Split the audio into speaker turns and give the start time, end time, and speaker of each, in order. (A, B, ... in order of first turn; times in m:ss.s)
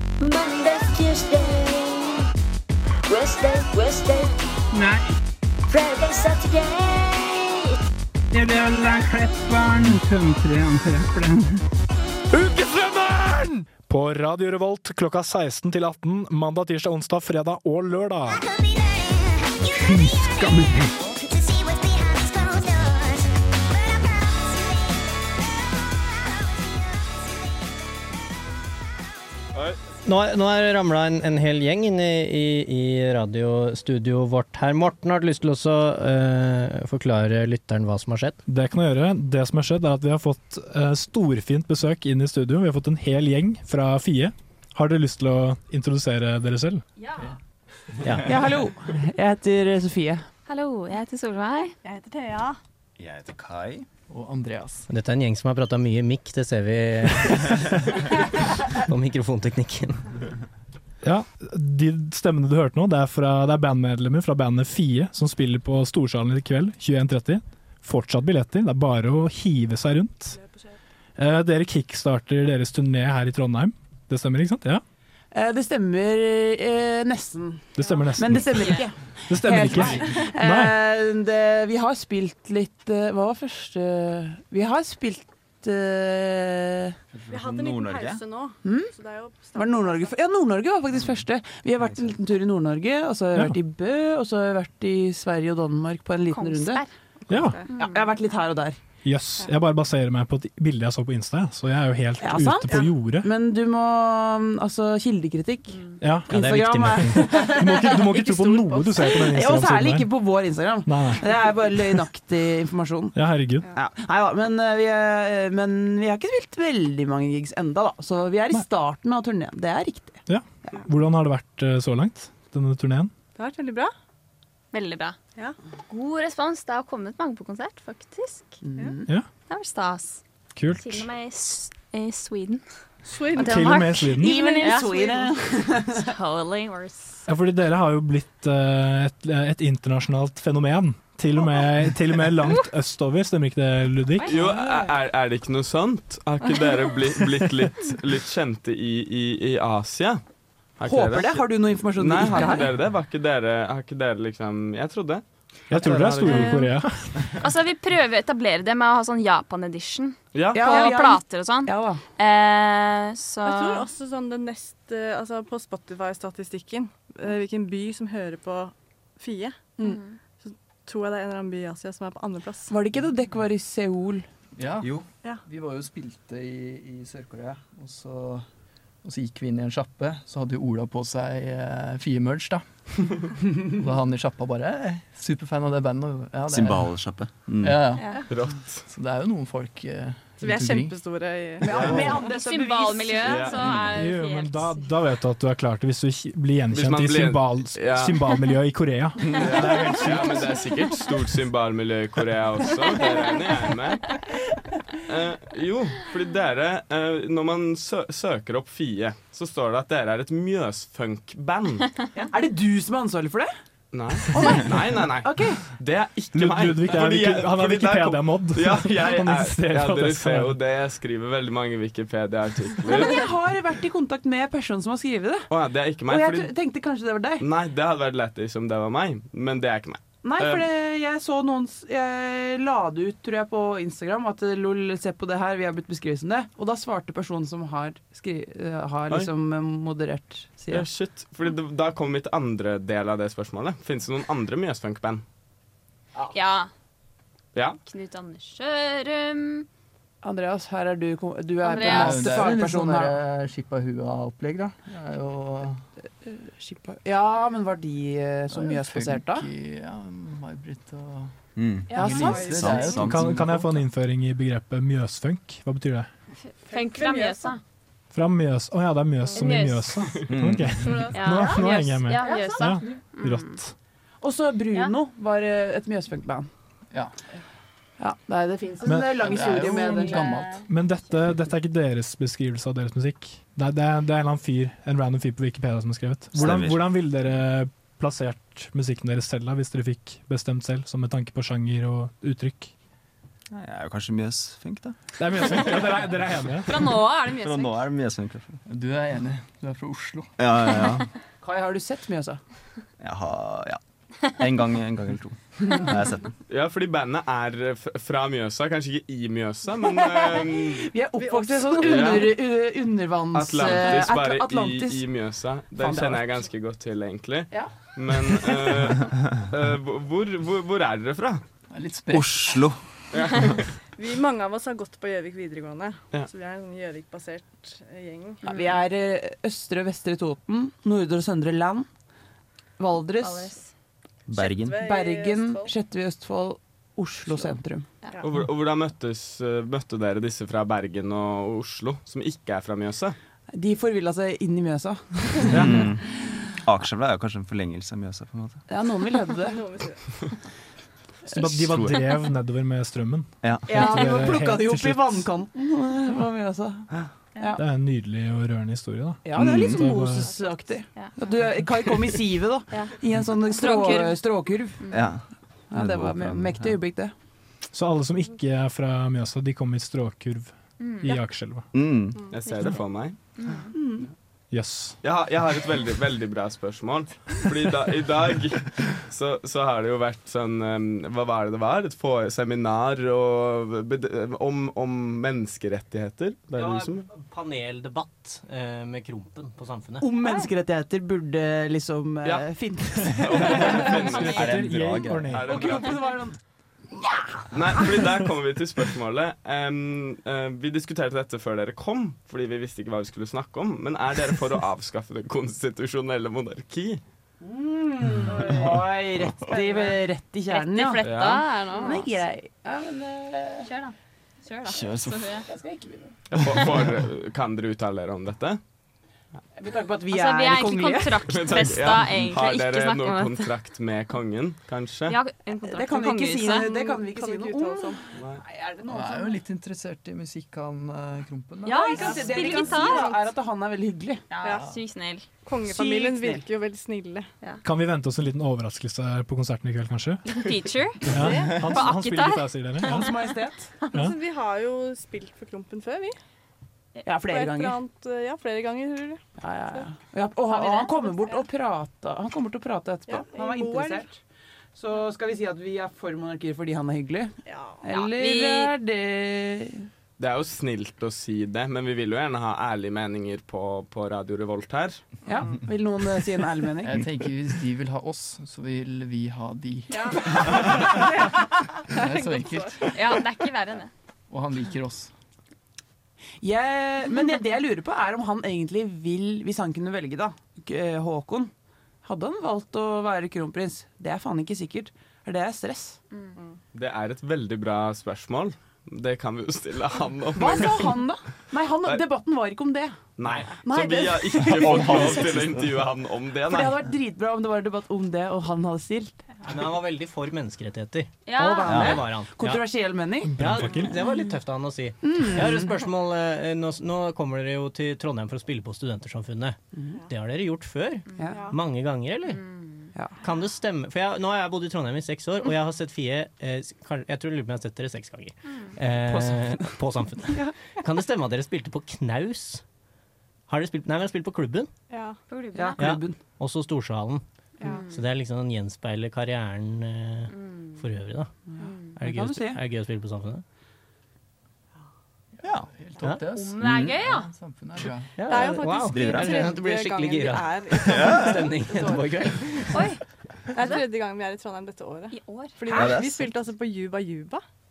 0:00.2-0:02.2 A
0:03.1-0:04.3 A
0:04.7-0:05.1 B
0:05.7-0:07.5 A
0:08.3-0:11.6 B
0:12.3-0:18.5 C
0:19.9-0:20.9 B
0:30.0-0:38.4 D
0:38.5-0:46.8 C
0:48.0-0:48.3 D
0:48.2-0:50.2 E
0:50.5-0:51.7 F
0:51.8-0:52.6 G
0:53.0-0:53.8 H
0:54.1-0:54.9 I
0:54.9-1:00.1 D
1:01.0-1:10.4 C
1:10.4-1:10.7 G
1:11.2-1:14.8 C
1:15.3-1:26.9 E
1:17.7-1:20.7 C
1:27.1-1:28.2 H
1:27.3-1:30.2 G
1:28.6-1:28.9 E
1:29.5-1:36.8 E
1:36.3-1:36.9 F
1:37.3-1:37.6 C
1:37.4-1:37.6 G
1:37.7-1:38.0 F
1:37.8-1:38.8 E
1:39.0-1:43.3 C
1:42.2-1:48.0 E
1:46.0-1:46.3 C
1:46.3-1:47.5 D
1:46.9-1:50.1 C
1:47.8-1:49.1 G
1:49.0-1:53.2 E
1:50.8-1:51.2 C
1:53.1-1:53.7 C
1:53.7-2:00.8 E
2:00.3-2:03.1 C
2:03.4-2:03.9 G
2:04.7-2:05.2 F
2:05.9-2:08.5 F
2:08.6-2:09.1 E
2:09.5-2:10.2 F
2:10.5-2:11.1 C
2:10.8-2:12.6 F
2:13.0-2:13.7 G
2:13.3-2:14.4 C
2:13.4-2:15.3 F
2:14.2-2:16.1 E
2:15.9-2:17.2 F
2:17.3-2:24.4 C
2:24.2-2:24.5 F
2:24.3-2:30.2 J
2:30.8-2:36.5 J
2:30.8-2:32.7 E
2:35.7-2:37.4 C
2:36.2-2:36.7 G
2:37.4-2:40.2 F
2:40.3-2:40.9 J
2:40.5-2:42.0 E
2:40.6-2:41.3 D
2:40.8-2:43.9 F
2:43.4-2:49.7 G
2:49.9-2:50.2 F
2:50.4-2:52.7 G
2:52.7-2:54.2 E
2:54.6-2:58.4 I
2:54.8-2:55.0 H
2:59.0-3:07.0 I
3:06.5-3:07.9 H
3:07.6-3:08.2 I
3:08.0-3:08.2 D
3:08.3-3:08.8 J
3:08.8-3:11.0 I
3:10.4-3:12.3 G
3:11.6-3:13.3 E
3:11.7-3:12.2 J
3:11.8-3:12.1 I
3:12.2-3:13.9 D
3:13.2-3:13.8 J
3:13.4-3:14.8 F
3:13.9-3:20.6 C
3:16.7-3:18.2 J
3:19.3-3:24.1 J
3:25.1-3:32.0 J
3:32.1-3:33.5 E
3:33.9-3:43.3 J
3:34.3-3:35.6 E
3:36.3-3:40.6 C
3:42.9-3:45.5 E
3:45.5-3:46.5 J
3:46.0-3:47.4 E
3:47.4-3:50.7 J
3:50.2-4:00.9 E
4:00.7-4:05.2 J
4:06.2-4:06.7 F
4:07.8-4:09.7 F
4:10.2-4:13.2 E
4:11.6-4:12.0 D
4:11.6-4:12.1 F
4:11.8-4:15.8 I
4:16.2-4:19.5 E
4:18.5-4:21.3 I
4:21.6-4:23.7 H
4:21.9-4:23.2 G
4:21.9-4:22.6 E
4:22.0-4:22.8 I
4:22.8-4:26.1 C
4:26.6-4:27.6 G
4:26.7-4:27.6 F
4:28.1-4:33.7 C
4:29.4-4:30.0 F
4:30.3-4:30.9 H
4:30.8-4:31.5 G
4:31.1-4:33.6 F
4:32.1-4:32.7 G
4:34.2-4:36.5 E
4:38.0-4:40.2 E
4:38.8-4:39.3 C
4:39.2-4:40.6 I
4:40.6-4:52.7 C
4:46.3-4:46.9 H
4:53.5-4:55.7 H
4:55.2-4:56.9 C
4:56.7-4:57.8 D
4:57.2-4:58.6 H
4:58.6-5:00.4 I
5:00.4-5:01.1 H
5:01.4-5:02.4 E
5:03.0-5:03.8 H
5:04.3-5:06.3 H
5:06.5-5:10.9 J
5:10.1-5:15.0 E
5:11.2-5:12.2 G
5:11.8-5:12.3 J
5:13.3-5:21.4 J
5:15.8-5:16.2 E
5:21.7-5:22.6 I
5:22.1-5:22.8 H
5:23.1-5:23.6 J
5:24.0-5:28.4 G
5:28.4-5:31.9 E
5:32.8-5:33.6 E
5:33.2-5:33.4 D
5:34.3-5:34.8 H
5:34.4-5:35.7 G
5:34.8-5:37.8 E
5:38.2-5:43.2 J
5:43.5-5:46.4 E
5:45.5-5:45.9 C
5:45.5-5:46.0 H
5:46.6-5:48.6 H
5:48.7-5:49.6 E
5:49.4-5:50.2 G
5:51.2-5:55.2 C
5:51.4-5:52.0 H
5:53.4-5:53.8 H
5:53.7-5:57.6 E
5:57.6-6:00.3 C
5:59.2-6:04.9 E
5:59.3-5:59.8 H
6:03.5-6:04.2 D
6:04.9-6:06.8 H
6:05.7-6:07.1 E
6:07.7-6:11.7 C
6:10.8-6:11.2 F
6:11.7-6:12.3 H
6:12.3-6:13.2 J
6:13.4-6:13.7 D
6:13.7-6:14.1 E
6:14.5-6:15.0 C
6:15.0-6:27.1 J
6:26.6-6:30.4 D
6:30.0-6:34.0 E
6:33.2-6:34.6 J
6:33.4-6:34.6 D
6:33.5-6:35.8 H
6:34.0-6:35.5 C
6:35.2-6:36.0 J
6:35.4-6:36.4 E
6:37.0-6:37.9 E
6:37.5-6:47.0 J
6:47.4-6:51.1 E
6:50.5-6:52.1 D
6:50.6-6:51.8 F
6:51.0-6:51.4 J
6:51.7-6:53.7 E
6:53.7-6:53.9 F
6:54.4-6:55.4 D
6:54.5-6:55.2 F
6:54.6-6:55.4 H
6:55.4-6:56.1 E
6:56.3-6:58.6 J
6:59.6-7:01.3 E
7:00.1-7:03.4 D
7:01.0-7:02.5 F
7:01.3-7:05.2 J
7:05.1-7:06.6 F
7:05.6-7:09.4 E
7:05.6-7:06.5 D
7:06.6-7:08.0 G
7:08.1-7:08.4 J
7:08.9-7:12.5 I
7:11.7-7:13.0 D
7:11.7-7:14.2 E
7:11.9-7:13.2 G
7:12.2-7:12.7 F
7:14.3-7:14.6 D
7:14.4-7:14.7 G
7:14.5-7:14.8 I
7:14.6-7:15.3 F
7:15.4-7:17.3 G
7:15.6-7:16.4 E
7:17.6-7:20.2 C
7:20.2-7:21.1 F
7:21.0-7:23.2 C
7:21.1-7:21.7 G
7:21.7-7:22.5 F
7:22.8-7:23.7 E
7:23.9-7:26.1 G
7:27.0-7:27.8 E
7:27.2-7:29.9 G
7:29.4-7:34.2 E
7:30.5-7:31.4 G
7:33.1-7:34.1 G
7:34.7-7:39.9 E
7:37.4-7:37.8 G
7:37.9-7:38.7 D
7:40.2-7:45.0 J
7:45.2-7:47.0 E
7:46.8-7:50.9 I
7:49.9-7:51.0 G
7:51.9-7:53.3 I
7:51.9-7:52.9 G
7:52.9-7:53.2 D
7:53.2-7:53.9 F
7:54.3-7:55.1 I
7:56.4-8:01.5 E
8:02.0-8:06.0 E
8:06.7-8:11.0 J
8:10.4-8:13.0 E
8:13.2-8:16.8 J
8:13.6-8:15.4 E
8:14.5-8:15.9 H
8:16.5-8:19.1 E
8:19.4-8:22.7 D
8:21.4-8:23.3 E
8:21.6-8:22.1 H
8:23.2-8:24.0 C
8:23.4-8:32.6 D
8:25.0-8:25.7 E
8:29.7-8:30.0 E
8:31.2-8:31.4 E
8:32.6-8:32.9 F
8:33.2-8:42.6 D
8:39.1-8:39.7 E
8:43.5-8:44.7 D
8:44.9-8:45.2 G
8:45.5-8:51.3 D
8:45.5-8:46.2 E
8:47.6-8:47.8 G
8:50.3-8:50.7 F
8:51.5-8:52.6 E
8:51.9-8:53.4 D
8:55.4-8:58.1 I
8:55.4-8:55.7 H
8:56.0-8:57.2 D
8:56.6-8:57.0 H
8:58.2-9:03.0 D
8:58.2-9:02.2 G
8:58.9-8:59.4 H
9:00.8-9:01.4 H
9:03.5-9:07.4 G
9:05.1-9:05.5 F
9:05.7-9:06.0 E
9:05.7-9:06.3 H